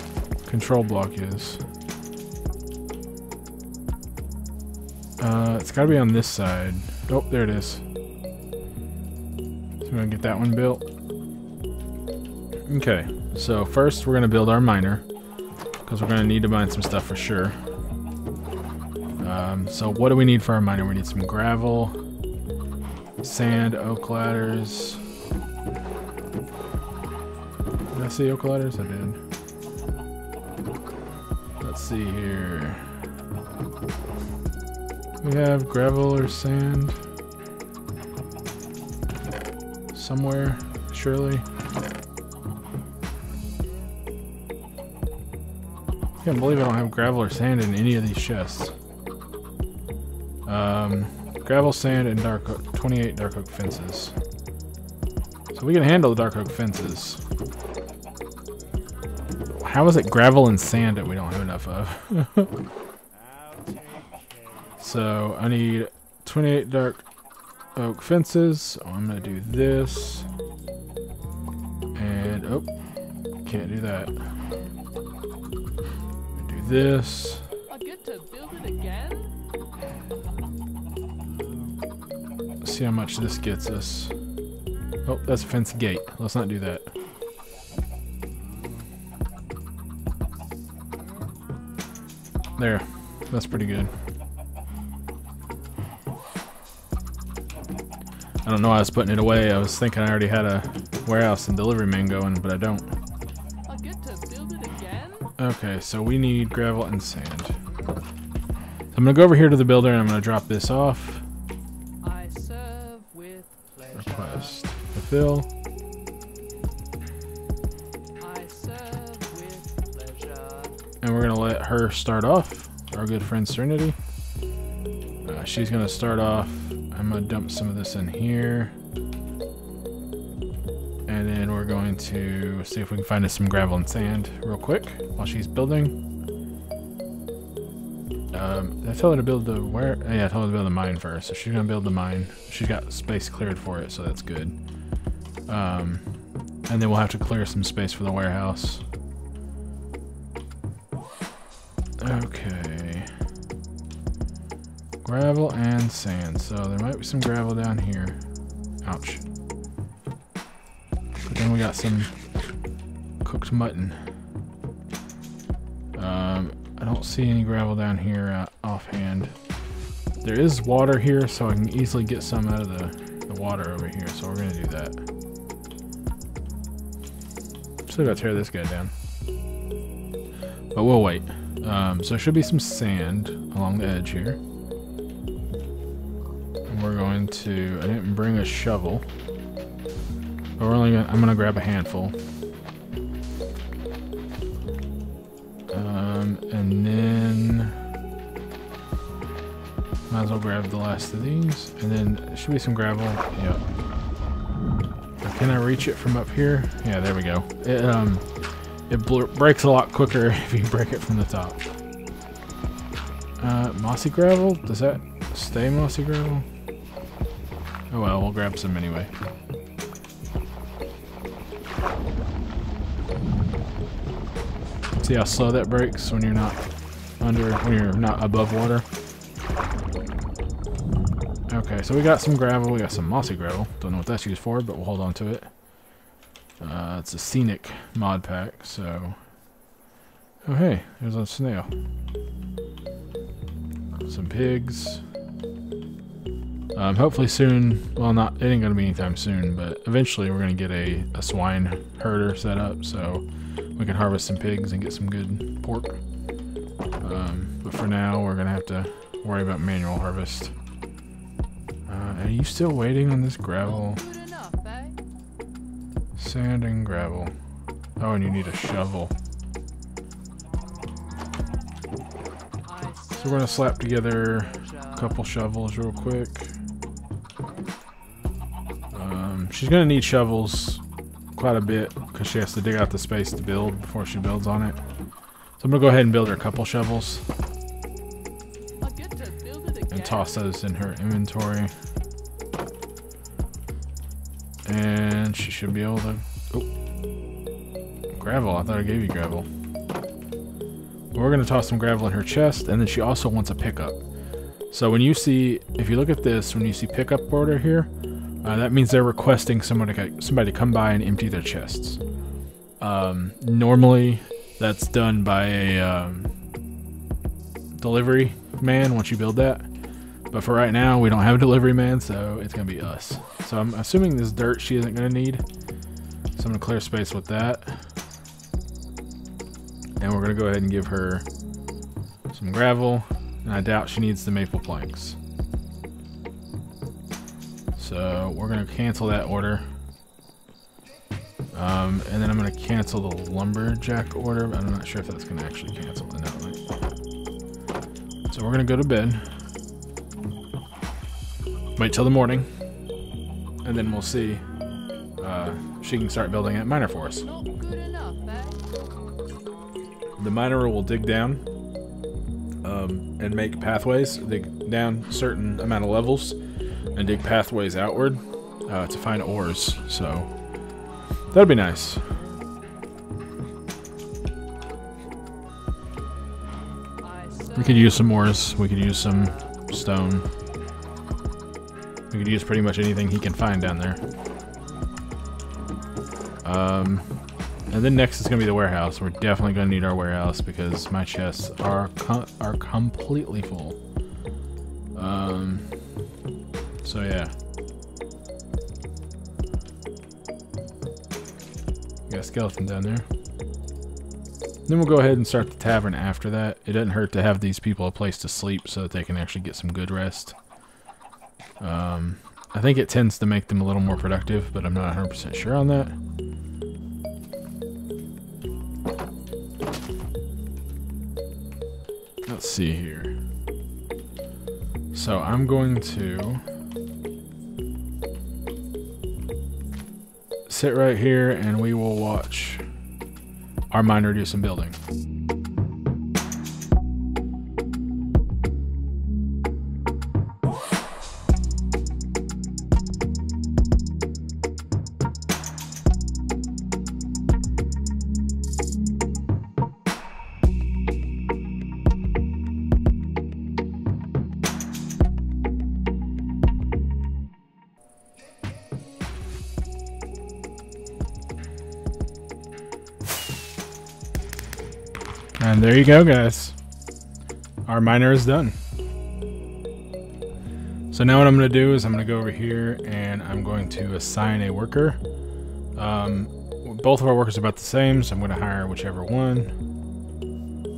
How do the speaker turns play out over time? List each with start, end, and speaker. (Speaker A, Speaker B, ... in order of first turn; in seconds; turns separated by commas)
Speaker A: 0.4-1.6, Speaker A: 5.2-7.8, Speaker A: 9.8-10.8, Speaker A: 12.7-15.0, Speaker A: 15.8-17.6, Speaker A: 19.2-21.9, Speaker A: 23.2-25.0, Speaker A: 27.9-29.2, Speaker A: 31.6-32.9, Speaker A: 35.2-37.0, Speaker A: 39.9-41.4, Speaker A: 46.2-48.7, Speaker A: 50.5-54.1, Speaker A: 55.5-57.2, Speaker A: 59.6-62.6, Speaker A: 64.8-67.0, Speaker A: 67.7-70.3, Speaker A: 72.0-72.7, Speaker A: 73.4-74.3, Speaker A: 76.4-77.5, Speaker B: 77.7-79.3, Speaker A: 82.6-84.1, Speaker A: 85.0-86.9, Speaker A: 92.6-93.9, Speaker A: 98.4-103.0, Speaker B: 103.7-105.3, Speaker A: 105.3-107.5, Speaker A: 108.9-111.2, Speaker B: 112.0-114.5, Speaker A: 113.9-115.5, Speaker B: 118.2-120.8, Speaker A: 121.0-124.0, Speaker A: 125.2-128.7, Speaker A: 131.1-135.9, Speaker A: 138.3-144.5, Speaker A: 145.5-146.1, Speaker A: 146.7-148.8, Speaker A: 152.0-153.1, Speaker A: 155.0-158.2, Speaker A: 158.8-159.2, Speaker A: 161.2-162.1, Speaker A: 163.2-164.0, Speaker A: 165.9-169.3, Speaker A: 170.2-175.0, Speaker A: 177.9-178.9, Speaker A: 180.7-184.4, Speaker A: 186.7-189.0, Speaker A: 190.6-192.2, Speaker A: 195.7-197.8, Speaker A: 200.1-203.6, Speaker A: 205.2-208.2, Speaker A: 208.9-211.6, Speaker A: 213.4-216.4, Speaker A: 217.9-219.1, Speaker A: 225.0-226.6, Speaker A: 227.2-228.8, Speaker A: 231.5-235.5, Speaker A: 236.6-239.2, Speaker A: 240.4-241.7, Speaker A: 244.1-245.0, Speaker A: 246.7-253.2, Speaker A: 253.8-256.0, Speaker A: 257.0-260.5, Speaker A: 261.9-264.0, Speaker B: 263.6-265.0, Speaker A: 266.1-267.3, Speaker A: 268.0-269.1, Speaker B: 272.6-275.2, Speaker A: 273.1-276.5, Speaker A: 278.9-280.8, Speaker A: 281.3-284.8, Speaker A: 285.6-287.2, Speaker B: 288.8-290.4, Speaker A: 289.9-291.7, Speaker A: 294.6-296.7, Speaker A: 298.1-299.5, Speaker A: 301.1-304.0, Speaker A: 304.7-307.9, Speaker A: 308.4-312.0, Speaker A: 312.8-316.3, Speaker A: 317.7-319.7, Speaker A: 320.3-325.4, Speaker A: 326.3-327.9, Speaker A: 330.0-331.2, Speaker A: 332.3-335.2, Speaker A: 337.8-339.6, Speaker A: 341.5-346.6, Speaker A: 348.3-349.2, Speaker A: 351.8-352.5, Speaker A: 353.6-354.4, Speaker A: 355.2-357.3, Speaker B: 357.2-358.6, Speaker A: 360.2-361.4, Speaker A: 362.6-366.4, Speaker A: 366.9-370.3, Speaker A: 371.3-372.1, Speaker B: 377.0-379.5, Speaker A: 377.5-380.3, Speaker A: 382.1-384.0, Speaker A: 386.4-387.1, Speaker A: 387.7-393.8, Speaker A: 394.9-395.7, Speaker A: 396.8-397.3, Speaker A: 402.1-403.1, Speaker A: 404.7-410.4, Speaker A: 411.6-415.9, Speaker A: 422.2-423.1, Speaker A: 424.9-426.4, Speaker A: 430.5-432.6, Speaker A: 433.7-434.8, Speaker A: 465.4-466.6, Speaker A: 467.6-468.6, Speaker A: 470.9-475.0, Speaker A: 475.7-479.5